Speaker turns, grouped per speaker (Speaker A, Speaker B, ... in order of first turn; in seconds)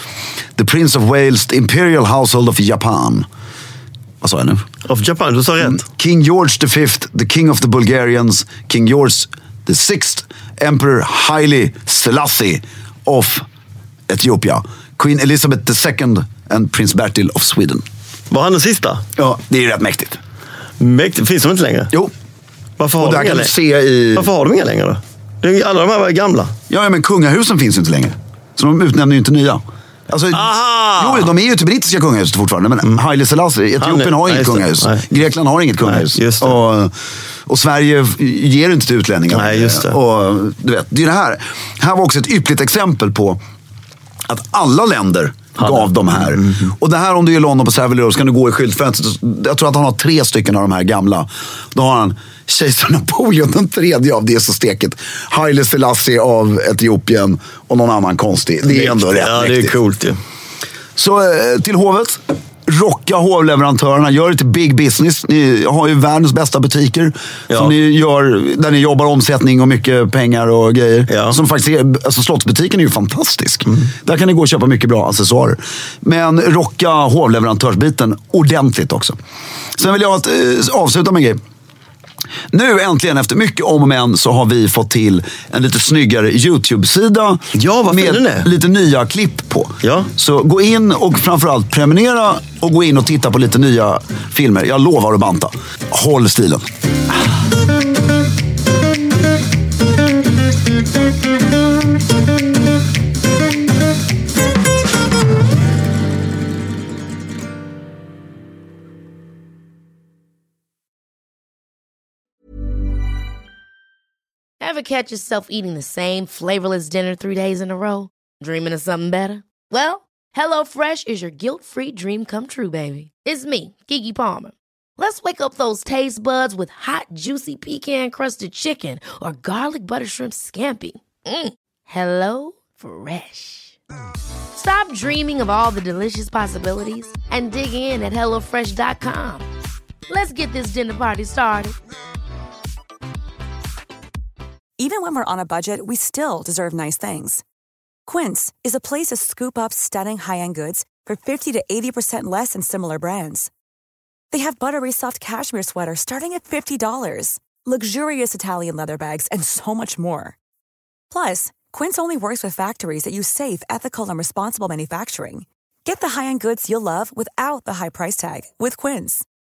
Speaker A: 0.6-3.3, 4.2-4.6, 5.6-13.4, 14.1-17.8, 19.2-20.2, 23.0-24.3, 26.7-36.9, 37.5-43.4, 44.3-59.7, 61.0-79.2, 79.8-81.4, 82.5-96.7
Speaker B: 4.8-5.8, 18.3-19.0, 20.8-21.9, 22.8-23.5, 24.1-26.5, 30.3-31.3, 33.8-35.1, 35.8-36.6, 39.3-40.0, 45.6-46.6, 58.7-60.2, 71.1-71.4, 87.5-88.5, 89.8-90.1
Speaker C: 114.6-133.8, 134.6-139.5, 140.1-141.8
Speaker D: 144.8-147.4, 148.1-153.5, 154.3-160.4, 161.1-169.2